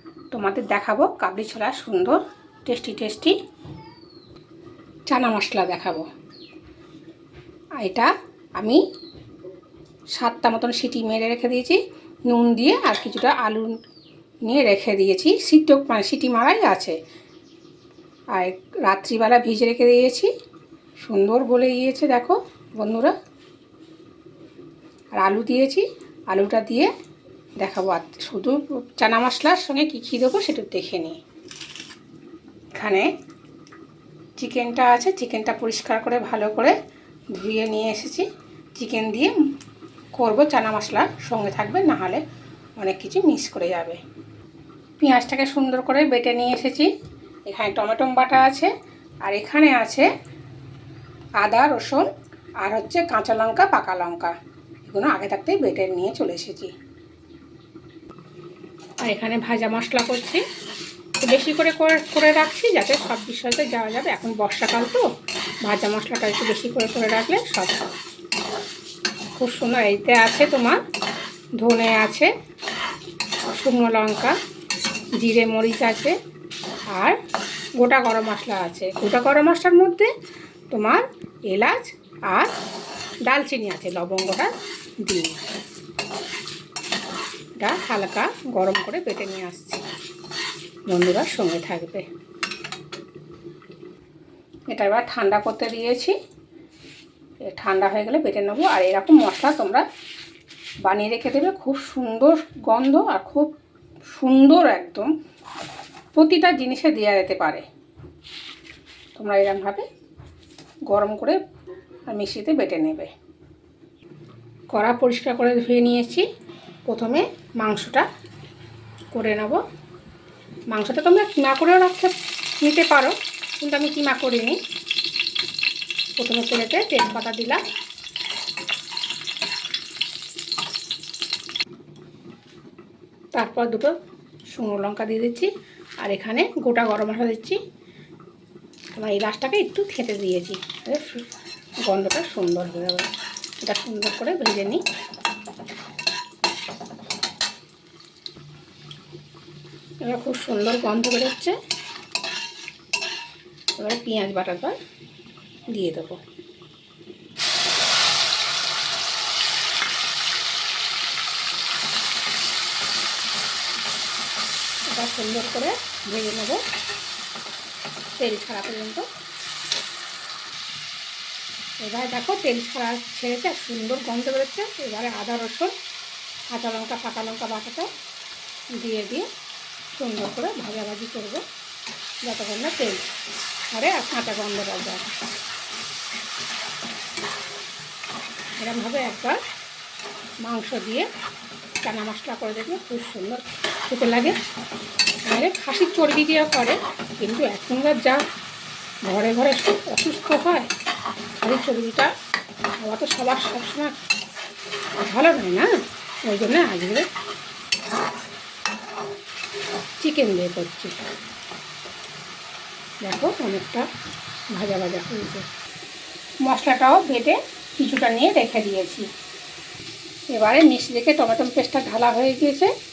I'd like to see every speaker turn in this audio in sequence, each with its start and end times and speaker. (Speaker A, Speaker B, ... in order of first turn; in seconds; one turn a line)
Speaker A: 0.3-3.4
Speaker A: 5.1-6.1
Speaker A: 7.8-8.8
Speaker A: 10.1-13.8
Speaker A: 14.4-17.0
Speaker A: 18.3-20.3
Speaker A: 21.0-23.1
Speaker A: 25.1-26.9
Speaker A: 27.6-31.2
Speaker A: 32.8-33.1
Speaker A: 34.4-36.8
Speaker A: 37.3-39.4
Speaker A: 40.1-42.2
Speaker A: 42.8-44.0
Speaker A: 45.0-46.9
Speaker A: 47.5-48.7
Speaker A: 49.2-50.1
Speaker A: 51.4-52.1
Speaker A: 52.6-56.7
Speaker A: 59.0-60.4
Speaker A: 61.2-65.0
Speaker A: 65.6-67.8
Speaker A: 69.3-70.8
Speaker A: 71.6-72.3
Speaker A: 73.5-74.3
Speaker A: 75.2-76.2
Speaker A: 76.9-77.2
Speaker A: 77.8-80.1
Speaker A: 80.7-82.5
Speaker A: 83.2-84.5
Speaker A: 85.0-85.4
Speaker A: 87.6-89.8
Speaker A: 90.9-92.0
Speaker A: 94.7-96.1
Speaker A: 97.4-99.8
Speaker A: 100.8-103.5
Speaker A: 104.1-105.1
Speaker A: 106.1-107.7
Speaker A: 109.1-109.9
Speaker A: 110.9-111.4
Speaker A: 112.1-113.1
Speaker A: 114.7-116.2
Speaker A: 116.9-118.1
Speaker A: 119.1-119.6
Speaker A: 120.7-124.6
Speaker A: 126.2-127.6
Speaker A: 133.3-133.9
Speaker A: 134.5-137.6
Speaker A: 138.9-141.3
Speaker A: 141.8-143.1
Speaker A: 143.6-144.8
Speaker A: 150.0-151.5
Speaker A: 153.8-154.8
Speaker A: 155.7-156.2
Speaker A: 164.9-166.6
Speaker A: 168.2-169.0
Speaker A: 171.8-175.7
Speaker A: 176.5-177.9
Speaker A: 178.8-179.3
Speaker A: 179.9-181.4
Speaker A: 182.2-183.1
Speaker A: 183.7-185.1
Speaker A: 188.6-189.4
Speaker A: 190.4-191.1
Speaker A: 191.8-194.3
Speaker A: 195.2-198.2
Speaker A: 199.0-200.7
Speaker A: 201.4-202.1
Speaker A: 202.8-203.9
Speaker A: 205.0-205.7
Speaker A: 206.2-207.1
Speaker A: 210.0-210.9
Speaker A: 213.0-213.8
Speaker A: 214.5-215.5
Speaker A: 216.4-219.1
Speaker A: 220.3-222.7